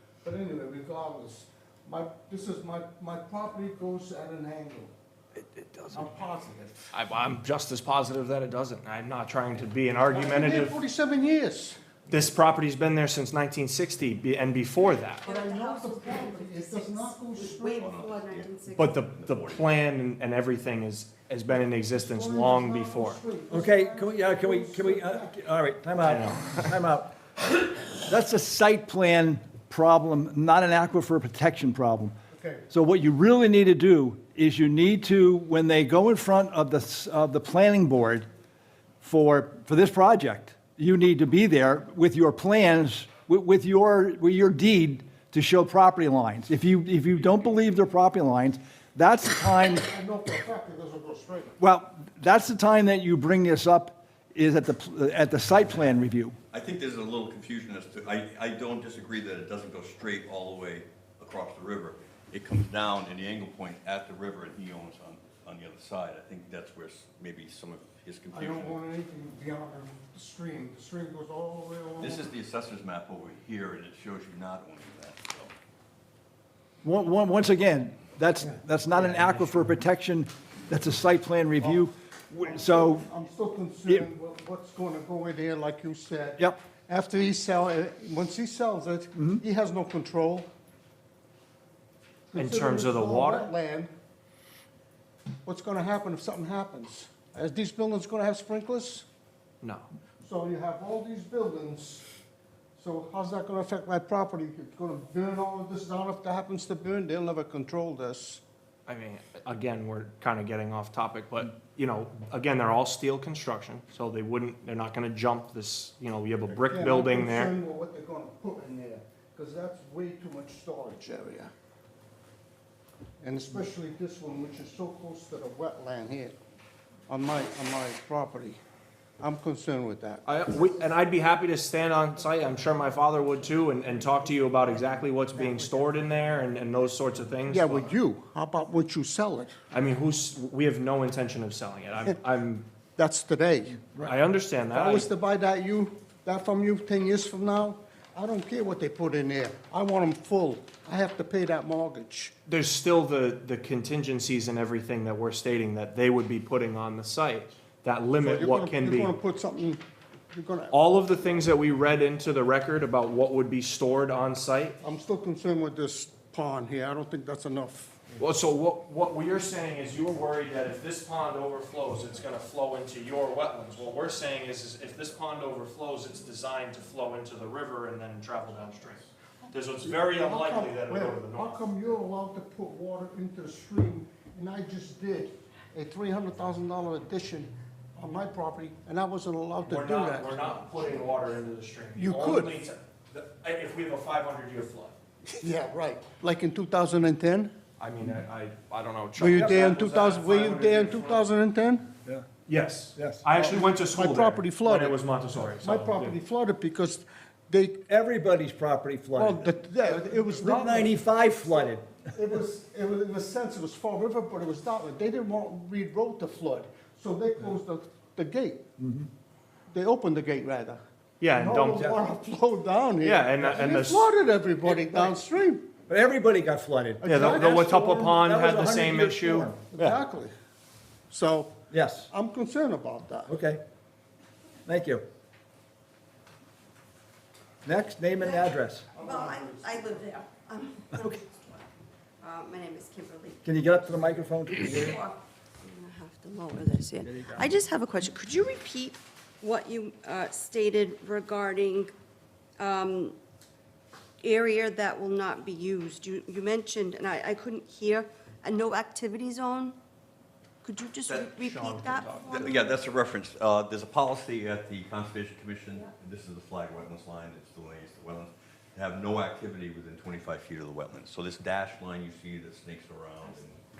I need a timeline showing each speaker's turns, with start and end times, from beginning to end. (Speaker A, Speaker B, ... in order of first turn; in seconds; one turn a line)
Speaker A: 0.2-4.9
Speaker B: 5.4-6.0
Speaker A: 5.9-6.9
Speaker B: 6.9-10.8
Speaker A: 10.1-11.8
Speaker B: 12.1-15.2
Speaker C: 15.2-19.0
Speaker A: 15.2-18.0
Speaker D: 17.8-19.7
Speaker B: 18.7-23.2
Speaker A: 21.9-25.3
Speaker E: 23.5-32.1
Speaker B: 26.0-26.7
Speaker A: 32.3-32.6
Speaker E: 32.7-38.3
Speaker E: 39.0-49.9
Speaker A: 49.7-51.5
Speaker E: 51.6-56.4
Speaker D: 56.5-68.8
Speaker A: 68.3-72.3
Speaker D: 72.0-75.5
Speaker E: 76.8-83.1
Speaker B: 79.0-79.5
Speaker A: 81.6-90.5
Speaker E: 89.2-89.4
Speaker A: 92.3-93.9
Speaker B: 92.3-93.5
Speaker A: 95.4-99.0
Speaker A: 100.2-102.1
Speaker A: 102.8-108.4
Speaker B: 108.9-117.5
Speaker A: 116.7-121.5
Speaker A: 123.2-126.4
Speaker A: 127.1-128.6
Speaker A: 129.2-130.2
Speaker B: 130.2-137.9
Speaker A: 135.4-135.8
Speaker A: 137.5-139.5
Speaker B: 139.7-142.7
Speaker A: 143.0-144.1
Speaker B: 144.0-145.1
Speaker A: 144.7-152.3
Speaker B: 152.5-159.1
Speaker A: 158.2-160.8
Speaker B: 160.7-164.8
Speaker A: 164.8-168.1
Speaker B: 168.2-181.7
Speaker A: 179.8-190.4
Speaker B: 189.6-194.9
Speaker A: 191.9-192.6
Speaker A: 195.3-197.5
Speaker B: 197.8-201.3
Speaker A: 199.2-201.9
Speaker E: 199.3-199.7
Speaker B: 202.4-206.2
Speaker E: 202.9-203.2
Speaker A: 203.3-207.8
Speaker E: 207.9-212.0
Speaker A: 209.1-218.6
Speaker E: 218.8-219.1
Speaker A: 219.7-225.6
Speaker B: 221.2-221.9
Speaker B: 223.0-224.1
Speaker E: 224.7-225.1
Speaker E: 225.9-230.0
Speaker A: 227.0-227.7
Speaker B: 227.0-229.5
Speaker A: 229.7-230.3
Speaker A: 231.1-233.3
Speaker E: 231.7-232.1
Speaker E: 233.3-233.6
Speaker E: 234.7-235.0
Speaker E: 237.6-238.8
Speaker C: 238.2-241.7
Speaker A: 238.9-240.1
Speaker C: 242.2-251.9
Speaker E: 243.4-245.0
Speaker E: 247.0-247.5
Speaker C: 252.6-253.2
Speaker C: 254.2-259.8
Speaker C: 260.6-262.8
Speaker A: 261.1-262.5
Speaker D: 262.2-273.6